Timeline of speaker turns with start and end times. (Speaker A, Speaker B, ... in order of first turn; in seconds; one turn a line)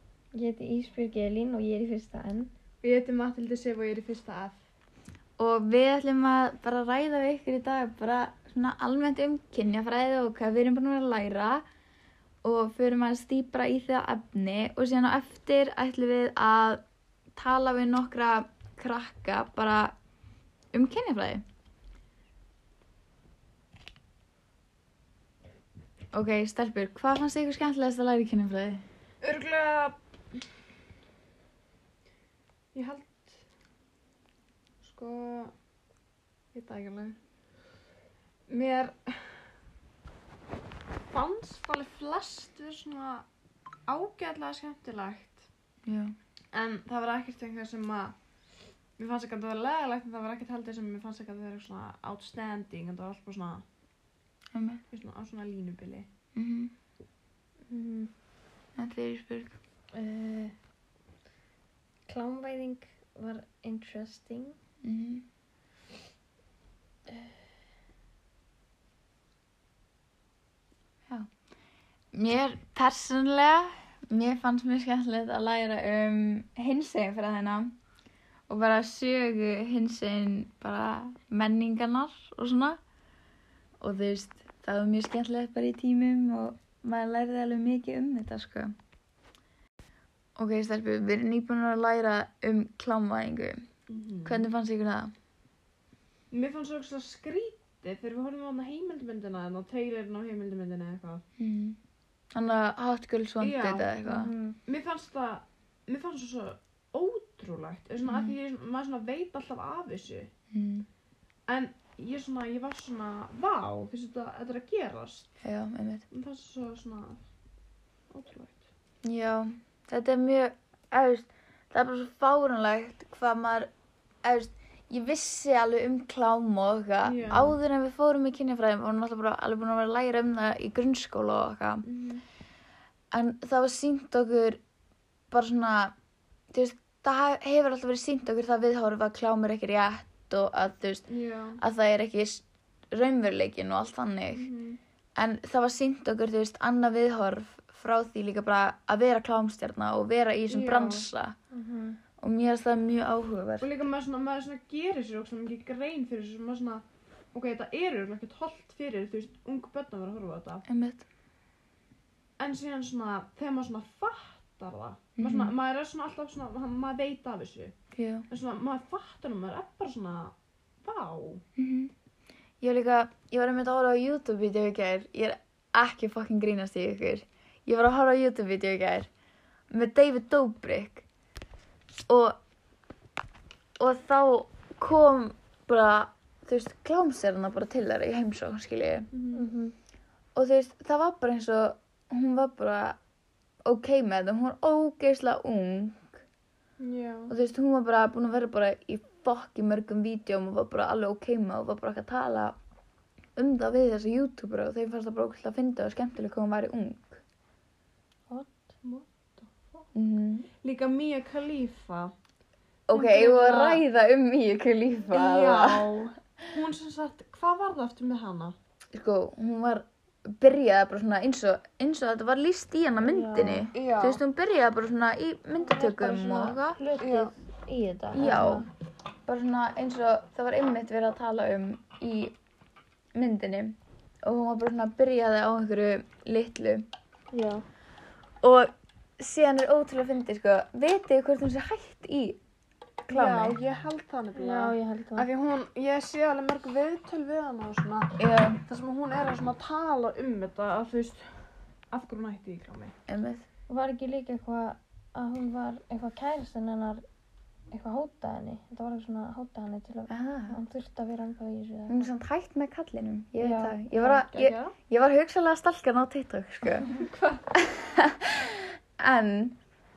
Speaker A: 0.3-2.5
Speaker B: 2.8-4.6
Speaker C: 5.4-11.6
Speaker C: 12.4-16.8
Speaker C: 17.4-19.9
Speaker C: 20.7-21.4
Speaker C: 26.1-28.8
Speaker B: 29.2-30.4
Speaker B: 32.7-33.4
Speaker B: 34.8-35.5
Speaker B: 36.5-37.2
Speaker B: 38.5-39.4
Speaker B: 41.1-43.3
Speaker B: 43.9-45.5
Speaker C: 45.9-46.2
Speaker B: 46.5-48.2
Speaker B: 49.0-53.6
Speaker C: 54.5-54.8
Speaker B: 54.9-56.1
Speaker C: 56.4-56.7
Speaker A: 57.7-58.1
Speaker C: 58.8-59.5
Speaker A: 59.9-60.5
Speaker A: 62.1-64.6
Speaker C: 64.8-65.2
Speaker C: 72.1-77.7
Speaker C: 78.5-82.8
Speaker C: 83.8-88.7
Speaker C: 90.4-93.6
Speaker B: 93.9-94.5
Speaker C: 94.2-95.1
Speaker B: 96.3-101.2
Speaker C: 101.4-101.8
Speaker C: 102.3-104.3
Speaker B: 103.4-103.9
Speaker A: 104.1-104.6
Speaker B: 104.7-110.3
Speaker C: 108.0-108.3
Speaker C: 110.5-110.9
Speaker B: 111.5-115.3
Speaker C: 115.4-116.1
Speaker B: 116.1-117.2
Speaker B: 118.1-118.7
Speaker C: 119.0-123.7
Speaker C: 124.2-131.9
Speaker B: 127.0-127.6
Speaker B: 131.8-132.2
Speaker C: 133.1-134.6
Speaker C: 135.3-135.9
Speaker C: 136.5-141.1
Speaker B: 141.1-141.6
Speaker C: 141.6-144.5
Speaker B: 144.3-144.8
Speaker C: 145.2-151.4
Speaker B: 150.5-151.1
Speaker A: 151.5-152.0
Speaker C: 152.2-153.7
Speaker B: 153.6-160.7
Speaker C: 160.7-161.1
Speaker B: 162.4-167.8
Speaker C: 165.2-165.5
Speaker C: 167.9-168.3
Speaker B: 168.3-171.4
Speaker C: 171.6-171.9
Speaker C: 172.6-179.1
Speaker C: 179.7-181.0
Speaker C: 182.1-182.4
Speaker C: 183.8-189.1
Speaker B: 189.1-189.4
Speaker A: 189.3-189.7
Speaker C: 190.4-193.0
Speaker C: 193.7-196.2
Speaker B: 196.8-197.3
Speaker C: 197.3-202.6
Speaker C: 203.4-207.2
Speaker B: 208.8-209.8
Speaker C: 209.9-210.5
Speaker B: 210.6-212.1
Speaker C: 212.9-216.0
Speaker B: 212.9-213.8
Speaker B: 215.1-218.6
Speaker C: 218.9-226.8
Speaker A: 223.0-223.7
Speaker B: 223.7-224.2
Speaker A: 225.6-228.7
Speaker B: 227.0-227.3
Speaker C: 228.1-228.7
Speaker C: 229.3-232.3
Speaker C: 233.2-236.9
Speaker A: 237.3-237.6
Speaker C: 238.4-242.4
Speaker C: 243.1-243.6
Speaker B: 243.1-248.1
Speaker A: 244.3-245.3
Speaker C: 248.2-248.6
Speaker B: 248.7-251.3
Speaker B: 251.9-252.9
Speaker C: 253.1-253.5
Speaker A: 253.7-257.0
Speaker A: 257.7-262.1
Speaker C: 260.1-260.6
Speaker C: 261.9-266.9
Speaker A: 263.4-263.8
Speaker B: 263.9-264.8
Speaker B: 266.9-267.4
Speaker C: 267.5-269.6